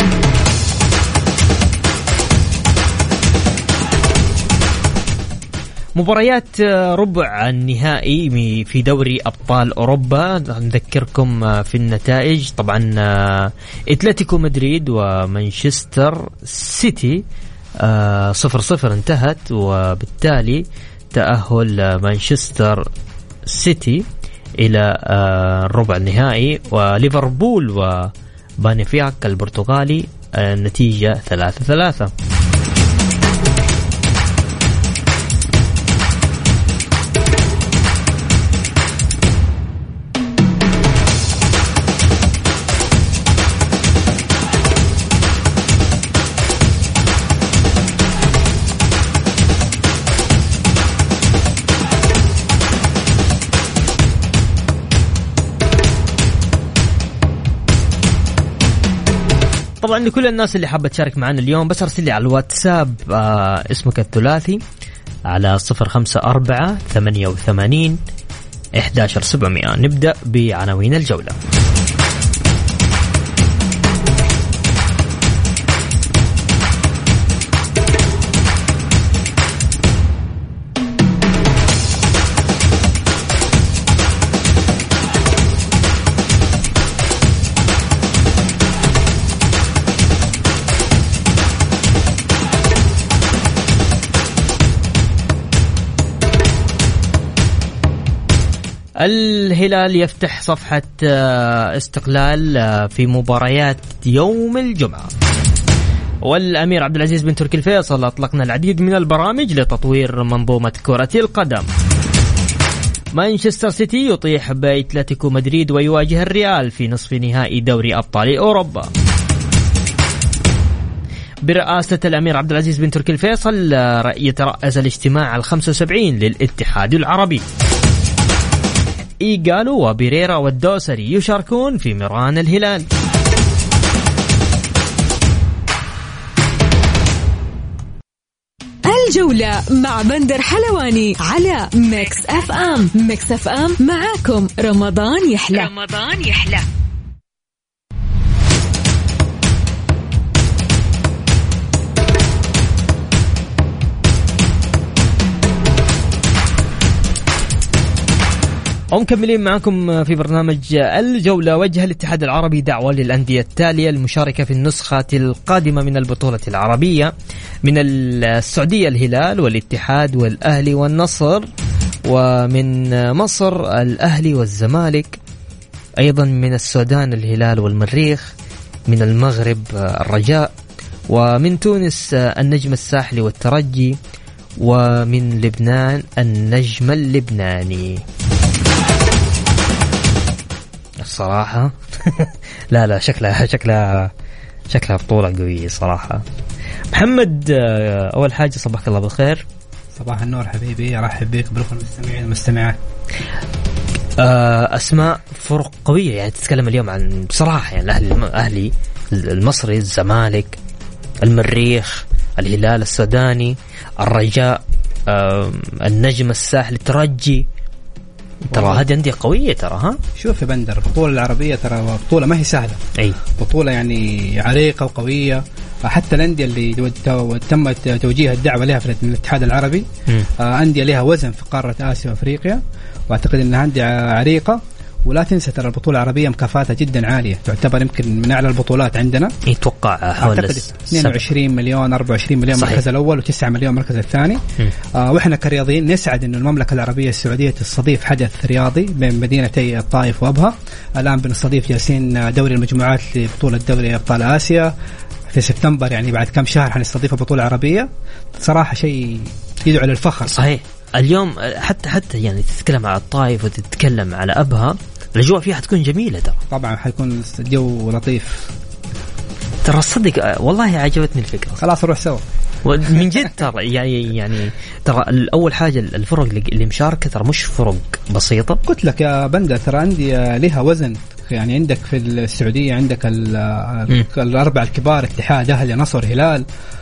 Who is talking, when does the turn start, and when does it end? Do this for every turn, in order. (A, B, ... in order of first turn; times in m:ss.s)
0:05.9-0:17.2 A
0:17.8-0:22.9 A
0:23.4-0:24.0 A
0:24.6-0:32.1 A
0:59.8-1:04.6 A
1:05.3-1:08.0 A
1:08.8-1:11.4 A
1:39.0-1:45.1 A
1:46.2-1:51.7 A
1:53.1-1:58.9 A
2:01.4-2:07.4 A
2:09.2-2:12.9 A
2:18.8-2:26.6 B
2:38.9-2:47.1 A
2:47.6-2:51.5 A
2:52.0-2:55.2 A
2:56.0-2:58.3 A
2:58.9-3:00.5 A
3:01.1-3:04.0 A
3:04.6-3:08.0 A
3:11.0-3:14.1 A
3:14.7-3:16.2 A
3:16.9-3:19.4 A
3:20.0-3:22.8 C
3:24.2-3:30.6 A
3:31.2-3:37.4 A
3:38.5-3:40.0 A
3:38.5-3:38.8 C
3:40.2-3:42.8 C
3:43.4-3:49.8 C
3:50.4-3:59.3 C
3:59.4-4:01.2 A
4:00.2-4:04.4 C
4:02.6-4:02.8 A
4:04.9-4:14.7 C
4:15.3-4:20.5 C
4:20.3-4:26.4 A
4:26.5-4:28.5 C
4:29.6-4:31.6 A
4:31.6-4:32.2 C
4:32.6-4:38.6 A
4:38.6-4:46.4 C